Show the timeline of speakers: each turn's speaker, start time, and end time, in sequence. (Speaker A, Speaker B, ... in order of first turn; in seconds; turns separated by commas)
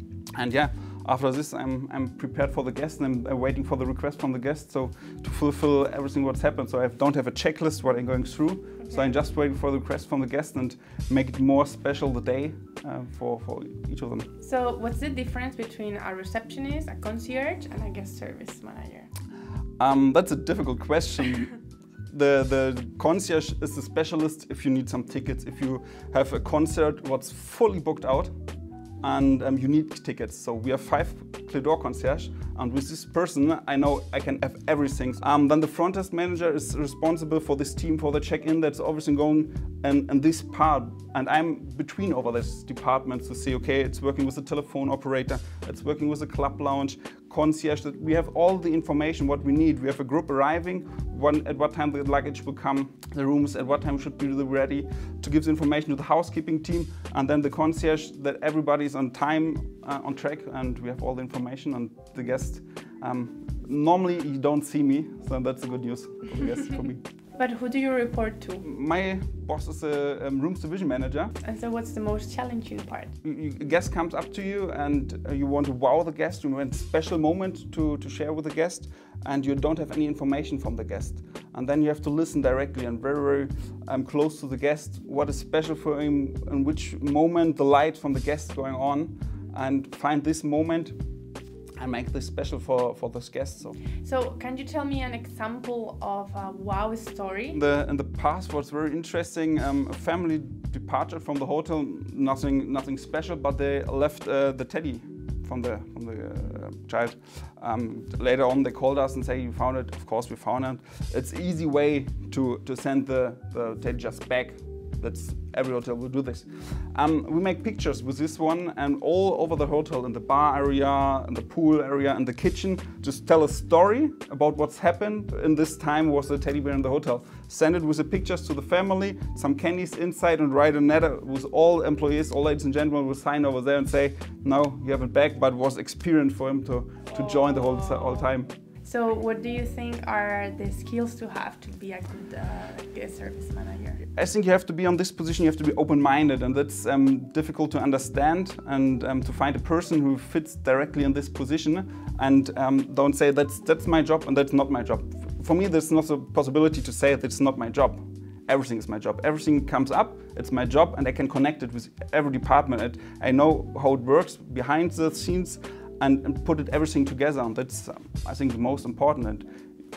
Speaker A: 0.3-14.3, Speaker B: 14.4-19.1, Speaker A: 19.8-28.3, Speaker A: 29.0-67.0, Speaker B: 67.4-68.6, Speaker A: 68.6-71.3, Speaker B: 71.4-73.1, Speaker A: 73.2-91.0, Speaker A: 91.8-93.8, Speaker B: 94.0-97.6, Speaker A: 97.5-138.5, Speaker B: 137.1-138.3, Speaker B: 138.8-144.0, Speaker A: 144.0-169.5